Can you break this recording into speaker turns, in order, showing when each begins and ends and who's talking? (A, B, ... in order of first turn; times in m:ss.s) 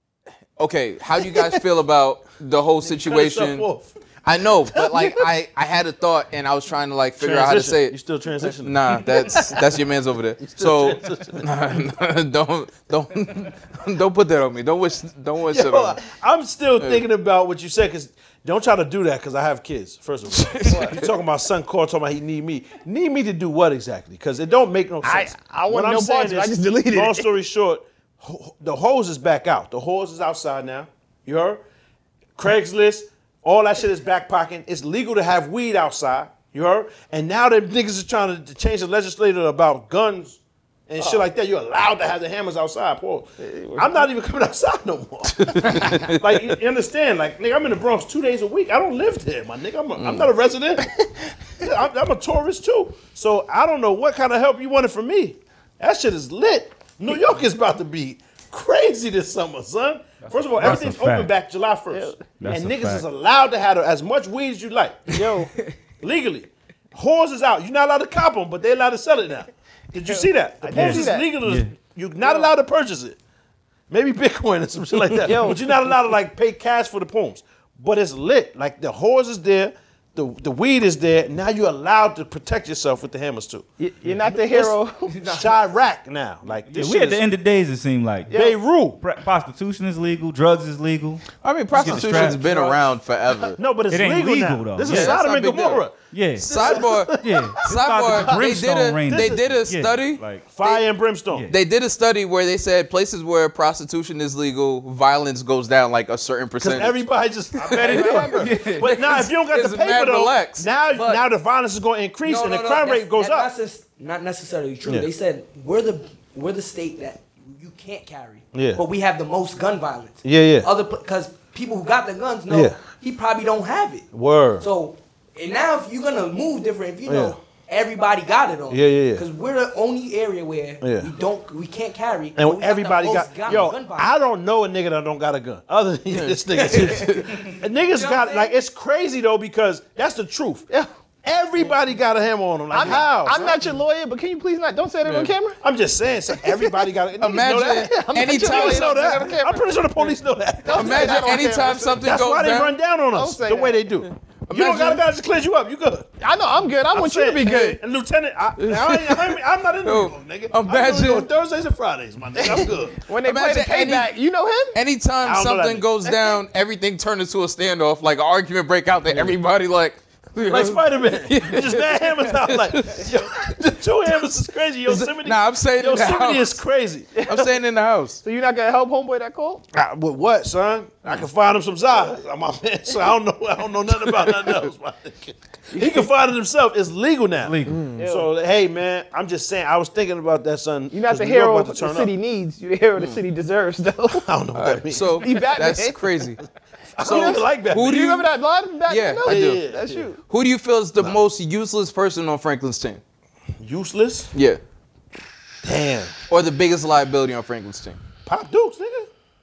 0:00.6-0:03.7 A
0:02.9-0:04.0 B
0:04.2-0:16.0 A
0:04.7-0:05.2 B
0:07.2-0:09.8 B
0:10.4-0:11.5 B
0:15.5-0:31.6 B
0:20.3-0:21.1 A
0:20.7-0:21.0 C
0:25.0-0:27.3 C
0:32.4-0:50.9 B
0:43.4-0:44.1 C
0:45.4-0:46.2 A
0:50.0-0:50.3 A
0:51.6-1:05.4 B
1:00.6-1:01.3 D
1:01.9-1:02.2 C
1:02.4-1:03.0 D
1:05.1-1:05.5 C
1:06.0-1:13.2 B
1:10.0-1:11.3 C
1:10.7-1:11.7 D
1:13.9-1:23.7 B
1:15.2-1:15.6 C
1:23.8-1:25.4 C
1:24.2-1:27.2 B
1:26.7-1:28.4 D
1:28.3-1:28.6 C
1:28.3-1:29.0 B
1:29.0-1:31.2 D
1:31.4-1:33.6 A
1:31.8-1:32.4 D
1:31.8-1:32.9 B
1:33.5-1:38.4 B
1:33.9-1:35.2 D
1:34.9-1:35.8 A
1:36.1-1:40.5 D
1:36.4-1:40.8 A
1:39.1-1:39.5 B
1:40.5-1:41.5 B
1:41.5-1:47.0 A
1:46.6-1:53.5 B
1:47.6-1:48.5 C
1:47.8-1:50.7 A
1:48.4-1:49.0 D
1:50.9-1:51.2 E
1:52.2-2:04.1 E
1:54.8-1:55.1 B
1:58.5-1:58.8 B
2:00.2-2:00.7 B
2:02.5-2:02.8 B
2:04.1-2:04.7 B
2:04.6-2:14.1 E
2:07.1-2:07.4 B
2:08.7-2:09.3 B
2:10.8-2:11.1 B
2:12.4-2:20.7 B
2:16.1-2:17.4 A
2:16.6-2:18.6 E
2:21.2-2:23.6 B
2:22.7-2:25.6 C
2:25.1-2:25.3 A
2:25.6-2:36.1 B
2:26.3-2:26.8 C
2:27.2-2:29.0 A
2:27.8-2:29.8 C
2:30.6-2:32.0 C
2:30.7-2:32.8 A
2:33.1-2:33.8 C
2:34.5-2:35.0 A
2:36.2-2:37.8 C
2:36.9-2:43.0 B
2:38.6-2:41.3 A
2:42.4-2:44.8 C
2:43.2-2:44.1 A
2:44.7-2:53.2 A
2:45.2-2:45.9 B
2:49.1-2:49.4 B
2:50.4-2:57.2 B
2:54.9-2:56.6 A
2:57.2-2:57.4 C
2:57.2-2:58.2 A
2:58.2-2:59.6 C
2:59.7-3:12.1 B
3:04.2-3:04.6 A
3:07.4-3:07.9 D
3:08.0-3:08.3 C
3:10.9-3:14.2 C
3:14.2-3:15.3 B
3:14.6-3:16.4 A
3:15.2-3:16.0 C
3:17.0-3:18.0 B
3:17.0-3:20.2 C
3:17.0-3:18.3 A
3:18.9-3:19.6 A
3:19.2-3:20.1 B
3:20.3-3:23.0 A
3:23.6-3:24.3 B
3:24.3-3:24.6 A
3:25.6-3:26.2 B
3:26.3-3:28.0 A
3:28.2-3:29.1 B